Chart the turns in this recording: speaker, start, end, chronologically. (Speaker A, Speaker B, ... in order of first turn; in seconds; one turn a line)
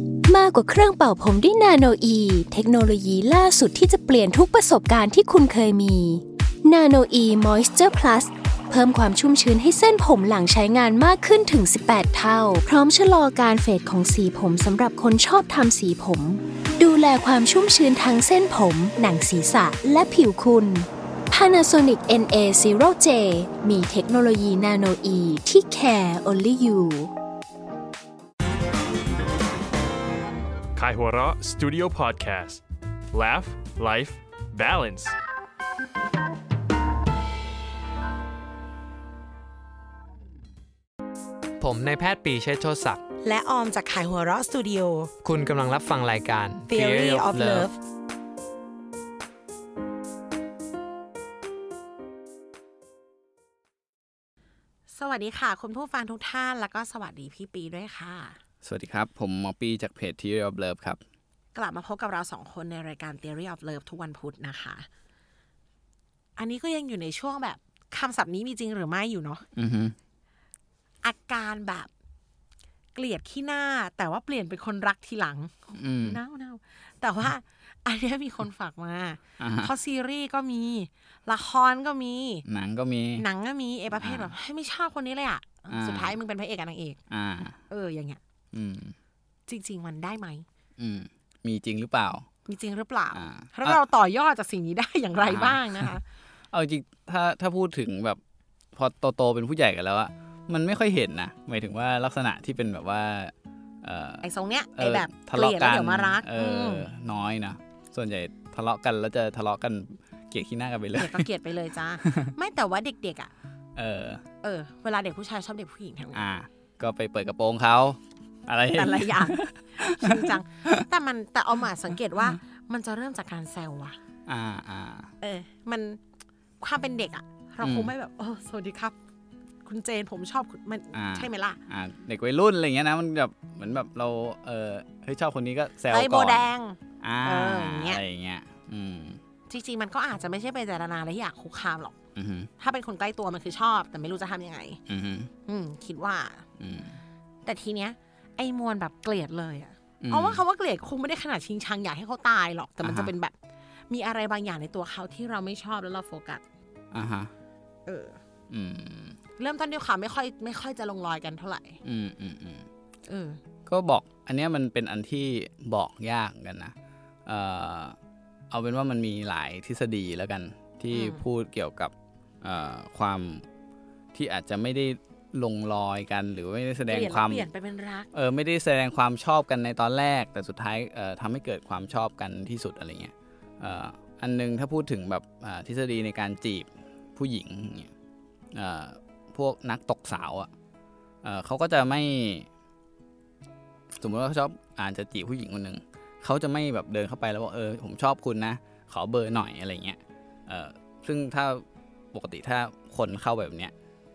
Speaker A: 0.2-27.1
Speaker B: 30.8-32.6
Speaker B: 33.1-35.1
Speaker C: 41.6-43.0
Speaker D: 43.2-45.1
Speaker C: 45.2-47.7
Speaker D: 46.7-47.7
Speaker D: 54.9-58.4
Speaker E: 58.6-61.0
Speaker D: 61.5-64.9
Speaker D: 66.3-69.4
Speaker E: 69.5-69.9
Speaker D: 71.0-71.9
Speaker D: 72.9-82.4
Speaker E: 75.7-76.2
Speaker E: 79.4-79.7
Speaker E: 82.5-83.2
Speaker D: 83.2-87.0
Speaker E: 83.9-84.3
Speaker E: 85.7-86.2
Speaker E: 87.1-87.6
Speaker D: 87.7-88.2
Speaker E: 88.5-88.9
Speaker D: 89.5-90.4
Speaker E: 90.8-92.2
Speaker D: 92.5-96.0
Speaker E: 93.1-93.8
Speaker E: 95.2-95.9
Speaker E: 96.5-98.2
Speaker E: 98.7-111.3
Speaker D: 104.2-106.9
Speaker D: 111.0-113.3
Speaker E: 112.0-112.3
Speaker E: 113.8-114.2
Speaker D: 114.4-116.3
Speaker E: 116.1-120.8
Speaker D: 118.7-124.0
Speaker E: 124.3-125.1
Speaker D: 125.2-126.0
Speaker D: 126.6-128.9
Speaker E: 127.6-127.9
Speaker D: 129.6-131.6
Speaker E: 130.9-136.5
Speaker D: 135.9-138.0
Speaker E: 137.0-139.2
Speaker D: 139.5-142.0
Speaker E: 142.2-142.5
Speaker D: 142.6-144.8
Speaker E: 144.9-145.3
Speaker D: 145.4-146.4
Speaker E: 146.6-147.0
Speaker D: 147.4-153.3
Speaker E: 150.0-150.4
Speaker E: 152.8-153.1
Speaker D: 153.9-156.4
Speaker E: 156.9-157.3
Speaker D: 157.8-158.2
Speaker E: 158.5-159.2
Speaker D: 159.3-161.8
Speaker E: 161.8-162.7
Speaker D: 163.1-163.4
Speaker E: 163.7-166.7
Speaker E: 167.2-167.9
Speaker E: 168.5-173.4
Speaker D: 170.9-171.2
Speaker E: 174.1-177.5
Speaker D: 176.9-178.1
Speaker E: 178.1-187.9
Speaker E: 188.5-190.5
Speaker E: 191.2-192.5
Speaker E: 193.9-203.7